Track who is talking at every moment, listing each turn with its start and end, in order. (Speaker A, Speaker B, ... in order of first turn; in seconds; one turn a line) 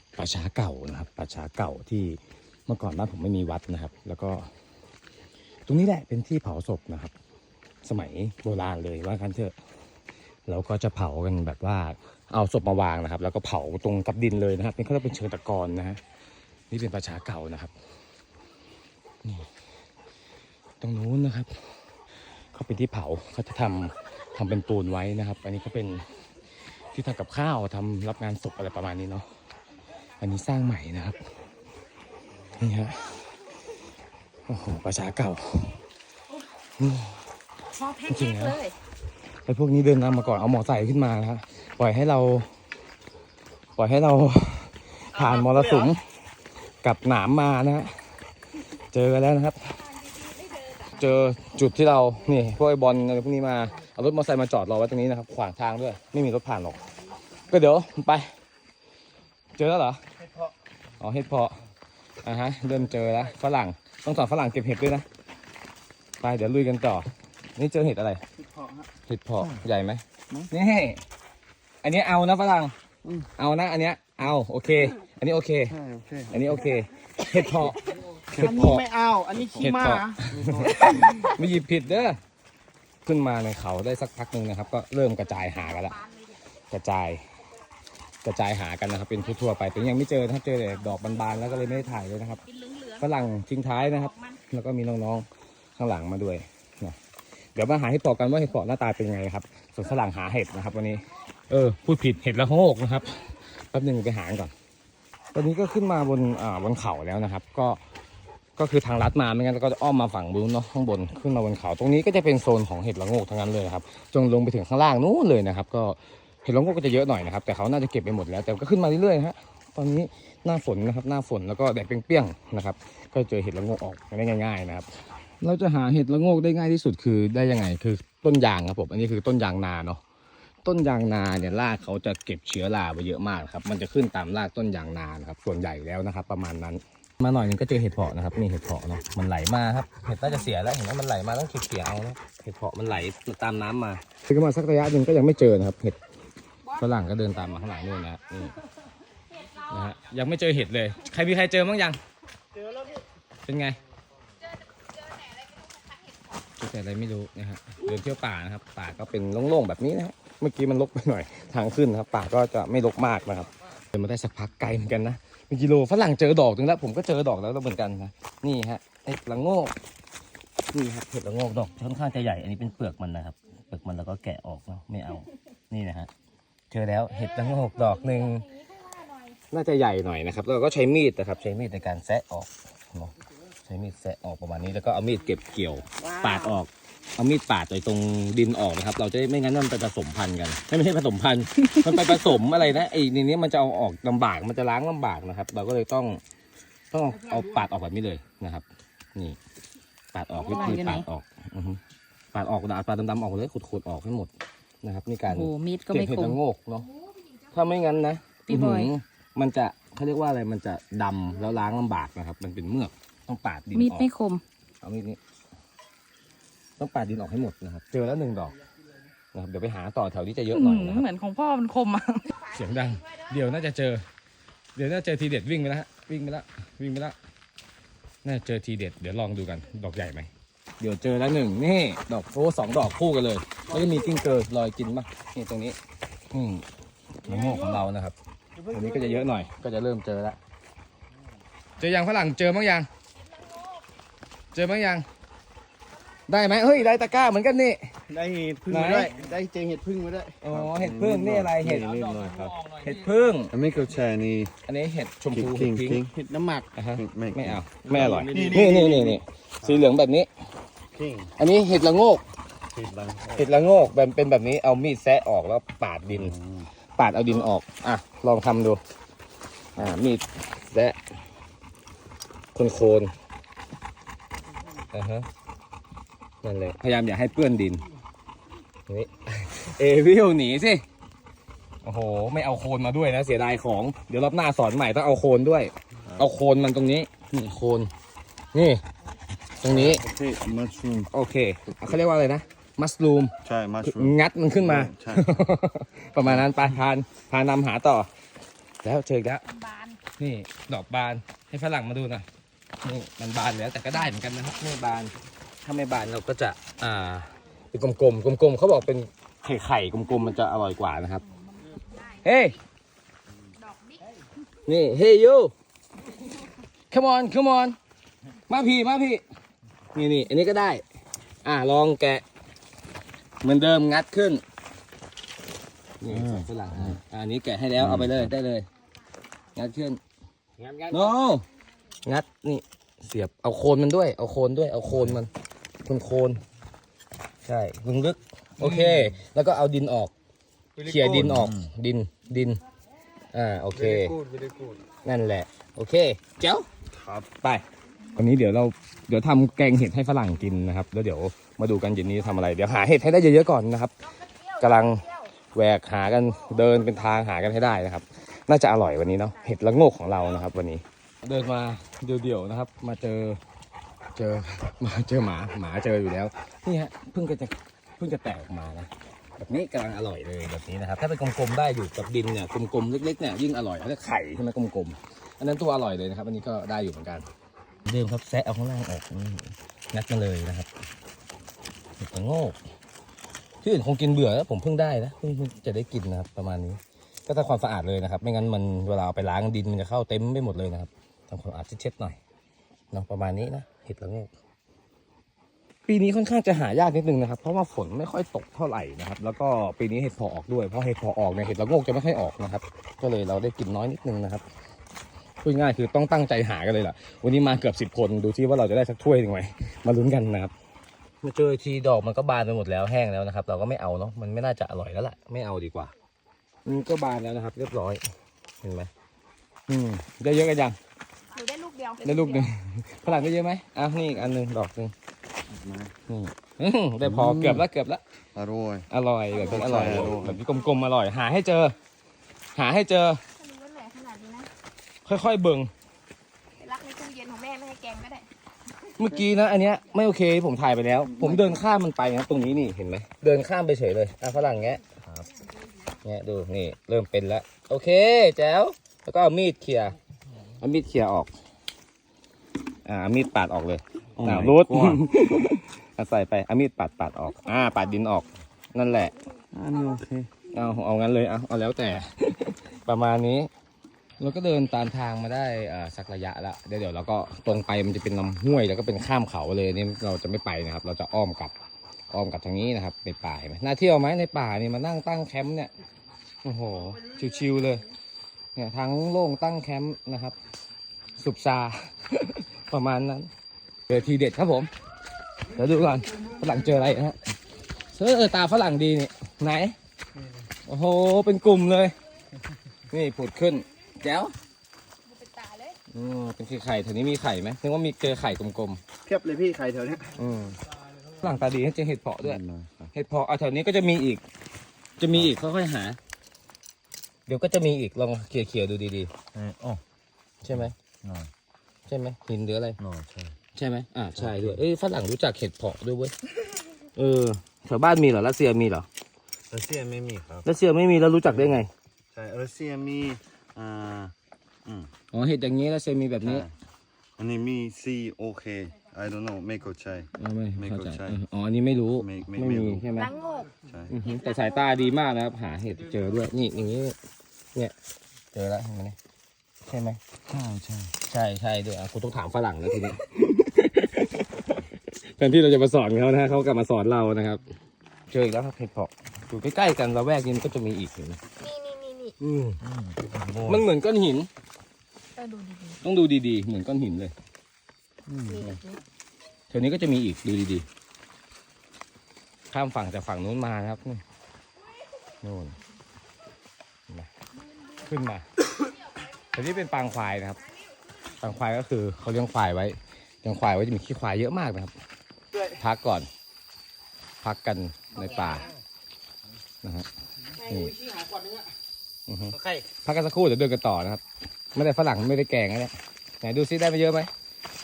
Speaker A: 0.2-4.5
Speaker A: 5.7-7.1
Speaker A: 7.8-9.6
Speaker A: 10.5-16.0
Speaker A: 16.7-17.7
Speaker A: 20.8-21.6
Speaker A: 22.5-26.1
Speaker A: 26.9-29.3
Speaker A: 30.2-31.2
Speaker A: 32.6-33.2
Speaker A: 34.5-35.8
Speaker A: 36.8-37.2
Speaker B: 37.8-38.8
Speaker A: 38.1-38.6
Speaker A: 39.5-42.5
Speaker A: 43.8-46.0
Speaker A: 46.8-48.0
Speaker A: 48.9-49.8
Speaker B: 50.1-50.9
Speaker A: 50.9-56.9
Speaker A: 57.5-58.3
Speaker A: 59.6-60.0
Speaker A: 61.0-61.6
Speaker A: 62.2-65.1
Speaker A: 66.2-68.2
Speaker A: 69.1-71.0
Speaker A: 71.8-72.7
Speaker A: 73.4-75.8
Speaker C: 75.7-76.6
Speaker A: 76.3-78.9
Speaker C: 78.3-78.8
Speaker D: 78.4-80.2
Speaker C: 79.3-81.0
Speaker A: 79.6-82.2
Speaker A: 83.1-86.0
Speaker B: 85.4-86.3
Speaker A: 86.7-87.2
Speaker A: 88.2-92.4
Speaker B: 92.5-93.1
Speaker A: 93.0-95.3
Speaker B: 93.9-94.4
Speaker A: 95.8-97.0
Speaker A: 97.5-104.5
Speaker A: 105.3-107.8
Speaker A: 108.6-130.0
Speaker A: 130.6-146.0
Speaker A: 146.7-148.6
Speaker A: 149.7-152.0
Speaker A: 153.5-153.8
Speaker B: 154.5-156.2
Speaker A: 156.6-169.8
Speaker A: 170.7-176.1
Speaker A: 176.7-178.5
Speaker B: 177.2-179.3
Speaker A: 179.5-183.1
Speaker A: 183.6-196.2
Speaker B: 186.0-186.5
Speaker A: 196.9-199.4
Speaker A: 200.1-201.8
Speaker E: 200.5-201.1
Speaker B: 200.6-200.9
Speaker A: 202.3-204.3
Speaker A: 204.8-206.9
Speaker E: 205.3-206.4
Speaker A: 207.5-214.1
Speaker E: 208.5-208.9
Speaker E: 213.8-214.4
Speaker B: 213.8-214.4
Speaker A: 214.8-215.2
Speaker A: 216.8-218.5
Speaker A: 219.3-221.1
Speaker E: 220.5-222.2
Speaker B: 221.9-222.3
Speaker A: 222.5-224.0
Speaker A: 224.8-227.2
Speaker A: 228.2-235.8
Speaker A: 236.3-236.7
Speaker A: 237.2-240.4
Speaker A: 241.8-242.9
Speaker A: 244.5-245.1
Speaker A: 246.3-247.9
Speaker D: 248.1-250.4
Speaker A: 248.7-249.1
Speaker A: 250.4-252.0
Speaker C: 250.4-252.7
Speaker A: 252.7-253.5
Speaker C: 253.5-254.5
Speaker A: 254.7-256.0
Speaker C: 255.3-256.2
Speaker D: 256.1-256.7
Speaker A: 256.7-260.3
Speaker C: 256.9-259.8
Speaker D: 258.0-258.6
Speaker C: 260.9-261.3
Speaker A: 261.4-262.2
Speaker C: 262.7-263.5
Speaker A: 263.4-266.4
Speaker C: 266.1-266.7
Speaker A: 267.0-268.8
Speaker A: 269.8-271.0
Speaker A: 272.6-273.1
Speaker A: 274.9-275.3
Speaker A: 276.4-277.8
Speaker A: 278.9-280.8
Speaker A: 281.8-287.9
Speaker A: 288.5-288.8
Speaker A: 289.6-290.0
Speaker C: 289.7-291.1
Speaker A: 291.1-298.1
Speaker C: 293.4-295.3
Speaker A: 298.8-299.4
Speaker B: 299.6-299.9
Speaker A: 300.2-302.3
Speaker A: 302.8-311.2
Speaker A: 312.2-312.6
Speaker B: 313.6-314.1
Speaker A: 314.7-315.5
Speaker A: 316.9-317.8
Speaker A: 318.5-319.2
Speaker A: 319.9-320.8
Speaker A: 321.4-322.2
Speaker A: 323.4-324.4
Speaker A: 326.0-328.7
Speaker C: 326.1-326.9
Speaker C: 327.8-328.1
Speaker A: 329.6-330.0
Speaker D: 330.6-331.0
Speaker A: 330.9-331.4
Speaker A: 332.1-335.3
Speaker A: 335.9-336.4
Speaker A: 337.4-340.1
Speaker D: 340.8-341.4
Speaker A: 340.8-342.6
Speaker C: 340.9-341.7
Speaker A: 343.3-344.2
Speaker D: 343.9-344.6
Speaker C: 344.3-344.7
Speaker A: 345.0-346.7
Speaker C: 346.9-347.3
Speaker A: 348.1-363.4
Speaker A: 364.2-377.3
Speaker A: 377.9-380.7
Speaker A: 382.0-382.6
Speaker A: 383.6-392.2
Speaker A: 392.9-394.3
Speaker A: 395.9-404.4
Speaker A: 405.4-410.5
Speaker A: 411.2-415.9
Speaker A: 416.6-418.0
Speaker A: 418.6-418.9
Speaker A: 419.7-420.8
Speaker B: 421.3-422.5
Speaker A: 422.0-424.9
Speaker C: 425.5-425.9
Speaker A: 426.1-428.0
Speaker C: 427.0-427.7
Speaker C: 428.4-430.4
Speaker A: 428.9-431.8
Speaker A: 432.6-433.2
Speaker B: 433.4-434.5
Speaker A: 435.1-435.7
Speaker B: 436.6-438.3
Speaker A: 439.0-444.8
Speaker A: 446.0-450.0
Speaker A: 450.6-451.3
Speaker A: 452.9-459.1
Speaker C: 454.2-455.1
Speaker C: 459.5-460.3
Speaker A: 460.5-463.5
Speaker A: 464.2-471.5
Speaker A: 472.1-475.7
Speaker A: 476.4-477.8
Speaker A: 478.6-480.4
Speaker A: 481.2-483.3
Speaker A: 483.9-484.7
Speaker A: 485.5-487.2
Speaker A: 487.9-489.8
Speaker A: 490.7-491.9
Speaker A: 492.9-494.3
Speaker B: 495.1-495.8
Speaker A: 495.9-498.8
Speaker D: 499.1-500.1
Speaker C: 499.1-500.0
Speaker A: 500.1-500.6
Speaker A: 501.2-504.2
Speaker C: 502.2-502.9
Speaker A: 505.0-506.0
Speaker A: 507.3-509.1
Speaker C: 509.4-509.8
Speaker A: 510.4-510.8
Speaker A: 511.9-512.8
Speaker C: 512.8-513.3
Speaker A: 513.5-516.1
Speaker C: 514.2-514.6
Speaker A: 517.0-518.9
Speaker C: 519.5-520.4
Speaker A: 520.4-521.7
Speaker C: 521.3-524.1
Speaker C: 524.6-524.9
Speaker A: 525.1-526.5
Speaker C: 526.2-526.5
Speaker C: 527.2-531.2
Speaker A: 530.2-533.1
Speaker C: 532.0-532.9
Speaker B: 532.9-533.5
Speaker C: 533.6-533.9
Speaker A: 533.9-537.0
Speaker B: 534.1-534.5
Speaker A: 538.3-539.0
Speaker A: 539.6-540.0
Speaker C: 540.3-540.9
Speaker A: 540.9-547.4
Speaker A: 548.1-551.2
Speaker B: 551.4-552.1
Speaker A: 552.2-552.6
Speaker C: 552.7-553.6
Speaker A: 553.4-554.3
Speaker B: 555.2-555.8
Speaker A: 555.8-557.1
Speaker C: 558.1-558.5
Speaker B: 558.3-558.8
Speaker A: 559.5-560.7
Speaker A: 562.5-564.0
Speaker A: 565.2-565.6
Speaker A: 567.7-568.2
Speaker A: 569.3-570.4
Speaker A: 571.2-574.7
Speaker A: 575.4-576.1
Speaker A: 577.2-578.5
Speaker A: 580.4-580.8
Speaker D: 580.8-581.5
Speaker A: 582.1-584.0
Speaker A: 584.5-587.1